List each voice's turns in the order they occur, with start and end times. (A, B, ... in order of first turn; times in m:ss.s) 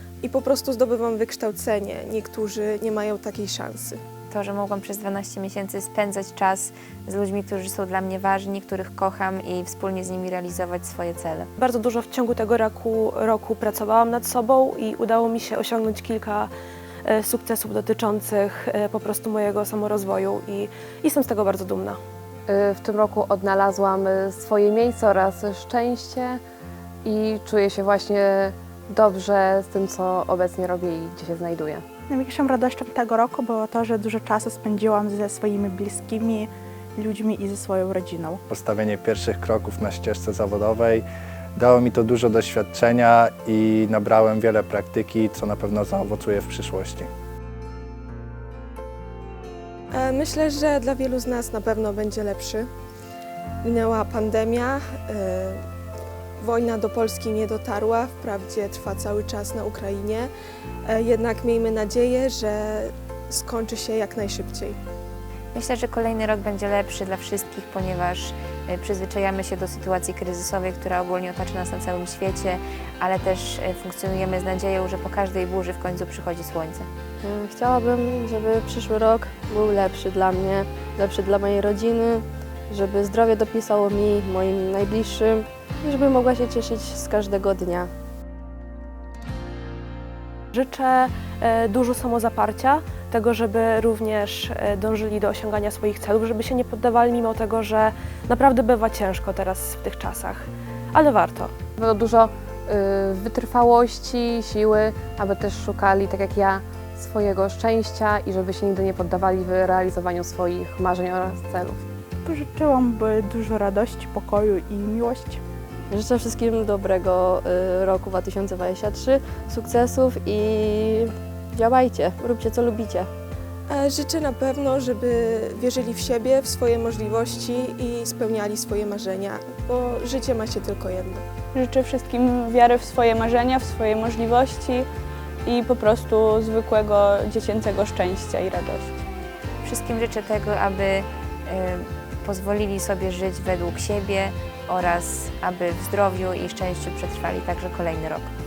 0:00.2-0:04.0 A
0:04.3-0:11.5 B
0:11.6-0:16.5 C
0:17.0-0:22.0 C
0:22.5-0:26.4 D
0:27.0-0:31.8 D
0:32.1-0:38.4 E
0:38.5-0:47.1 F
0:49.9-0:52.7 A
0:53.6-0:55.6 A
0:56.4-1:00.3 A
1:00.8-1:04.8 A
1:05.5-1:16.9 B
1:17.2-1:27.9 G
1:30.5-1:41.5 C
1:41.8-1:51.8 D
1:52.2-1:55.4 E
1:55.9-2:03.1 G
2:03.7-2:11.2 A
2:11.5-2:14.9 H
2:15.4-2:19.0 H
2:19.6-2:28.3 B